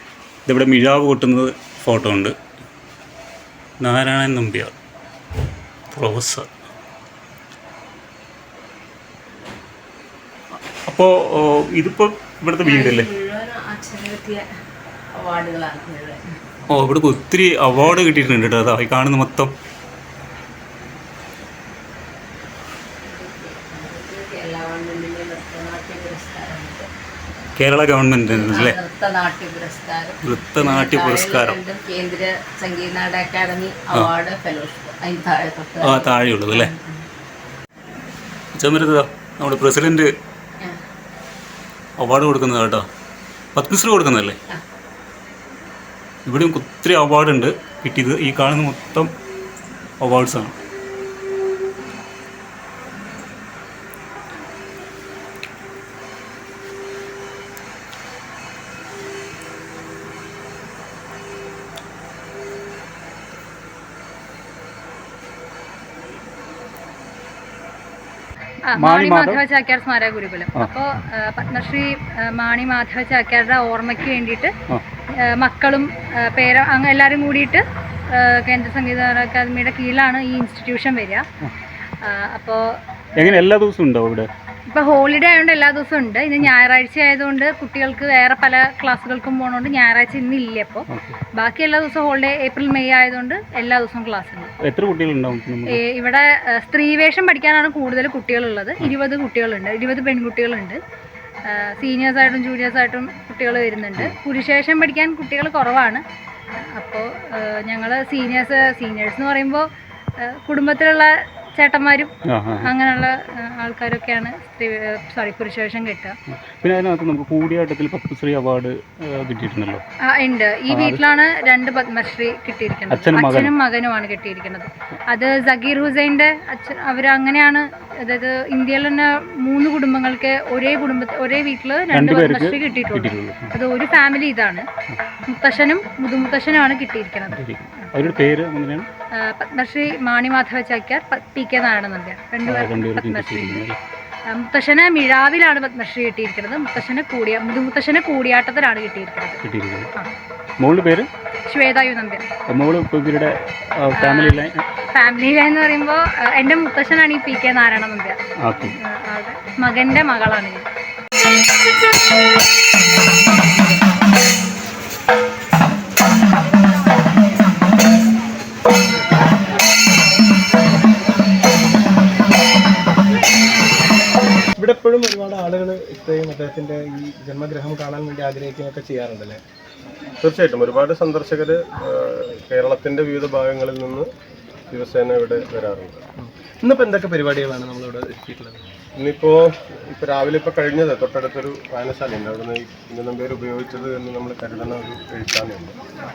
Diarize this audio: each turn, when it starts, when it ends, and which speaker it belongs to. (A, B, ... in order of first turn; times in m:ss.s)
0:00.4-0:02.3 A
0:03.8-0:04.7 A
0:05.9-0:06.5 A
0:10.8-0:13.1 A
0:12.6-0:14.5 B
0:15.1-0:16.3 B
0:16.7-0:19.5 A
0:23.0-0:26.9 B
0:27.6-0:28.8 A
0:28.3-0:37.0 B
0:30.2-0:31.6 A
0:35.8-0:36.7 A
0:38.5-0:40.1 A
0:42.0-0:42.8 A
0:43.6-0:44.4 A
0:46.2-0:49.1 A
0:50.0-0:50.5 A
1:08.7-1:14.5 C
1:08.8-1:09.4 A
1:15.2-1:21.3 C
1:22.0-1:23.4 C
1:23.2-1:24.3 A
1:24.7-1:34.5 C
1:34.6-1:35.8 A
1:35.7-1:40.8 C
1:41.5-1:46.0 C
1:46.6-1:49.7 C
1:50.2-1:56.2 C
1:52.2-1:52.7 A
1:56.6-1:59.8 A
2:00.0-2:14.7 C
2:00.7-2:01.0 A
2:02.9-2:03.5 A
2:11.9-2:13.5 A
2:15.2-2:17.9 C
2:17.3-2:18.9 A
2:19.2-2:23.6 C
2:22.4-2:23.8 A
2:24.3-2:29.4 C
2:29.4-2:29.9 A
2:30.6-2:31.1 A
2:31.5-2:32.3 C
2:32.5-2:34.6 A
2:34.0-2:34.4 C
2:34.9-2:38.2 C
2:38.4-2:38.7 A
2:38.8-2:40.6 C
2:54.6-2:59.4 D
3:00.2-3:04.1 E
3:04.7-3:06.0 E
3:06.2-3:08.6 D
3:09.0-3:15.8 E